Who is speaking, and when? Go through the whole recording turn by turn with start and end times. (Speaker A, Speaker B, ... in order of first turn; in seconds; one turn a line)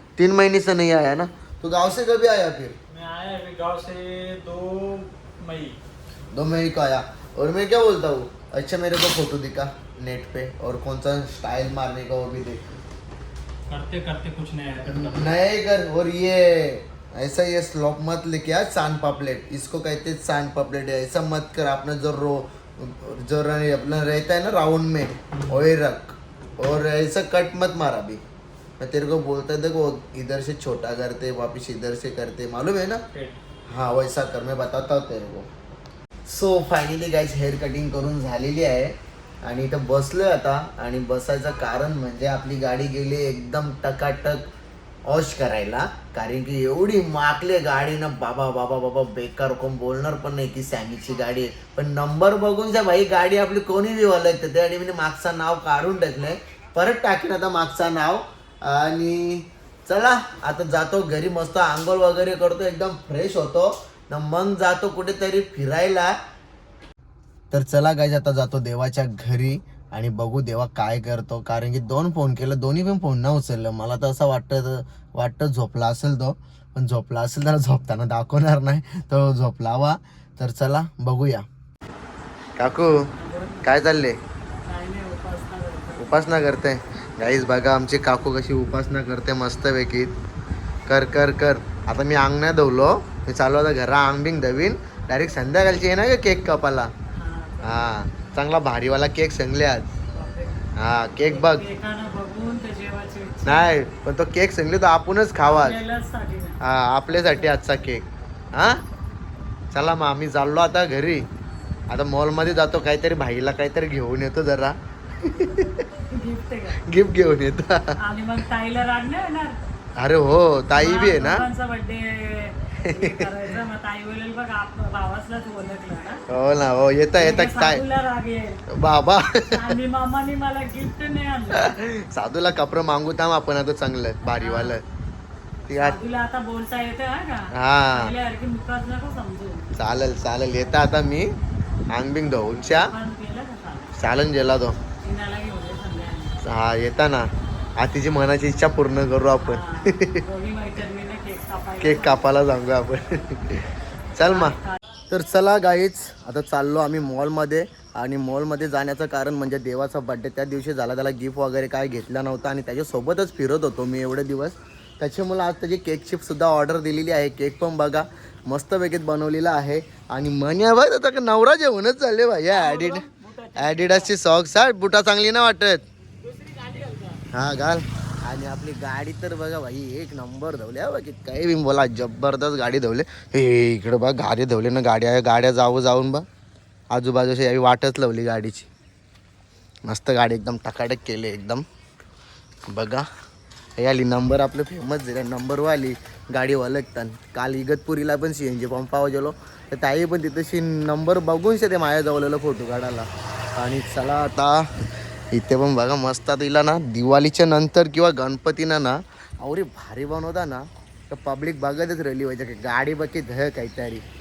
Speaker A: 0.2-2.8
Speaker B: 2.9-5.8
Speaker A: 6.3-12.6
Speaker B: 13.7-15.3
Speaker A: 14.8-28.2
Speaker A: 28.8-33.0
Speaker A: 33.7-35.5
Speaker A: 36.3-44.5
Speaker A: 45.0-66.1
Speaker A: 67.5-81.5
Speaker A: 82.6-82.9
Speaker C: 83.2-83.7
Speaker A: 83.6-84.2
Speaker C: 84.6-86.2
Speaker A: 86.0-90.1
Speaker A: 90.9-96.9
Speaker C: 97.1-97.9
Speaker A: 97.6-99.9
Speaker C: 100.1-100.6
Speaker A: 100.8-101.6
Speaker C: 101.2-103.7
Speaker A: 103.4-105.8
Speaker C: 105.4-106.6
Speaker A: 106.6-108.8
Speaker C: 107.1-107.6
Speaker A: 109.7-111.3
Speaker A: 111.9-115.8
Speaker C: 116.1-116.8
Speaker A: 116.9-118.0
Speaker C: 118.0-119.5
Speaker A: 120.0-121.5
Speaker C: 120.8-126.2
Speaker A: 122.8-123.3
Speaker A: 126.3-127.8
Speaker C: 127.2-128.6
Speaker A: 128.8-129.8
Speaker C: 129.5-131.7
Speaker A: 131.5-134.8
Speaker C: 134.2-134.8
Speaker A: 135.7-136.0
Speaker C: 135.7-139.6
Speaker A: 137.5-138.1
Speaker A: 139.8-141.3
Speaker A: 141.9-142.9
Speaker C: 142.7-143.9
Speaker A: 144.0-144.8
Speaker C: 145.0-146.3
Speaker A: 146.4-150.2
Speaker C: 149.4-152.2
Speaker A: 151.8-154.6
Speaker C: 154.2-154.8
Speaker A: 155.1-175.8
Speaker C: 172.5-174.1
Speaker C: 176.2-177.2
Speaker A: 177.3-186.2
Speaker A: 186.9-188.7
Speaker A: 189.8-191.6
Speaker A: 192.7-193.1
Speaker A: 193.8-204.7
Speaker A: 205.3-214.0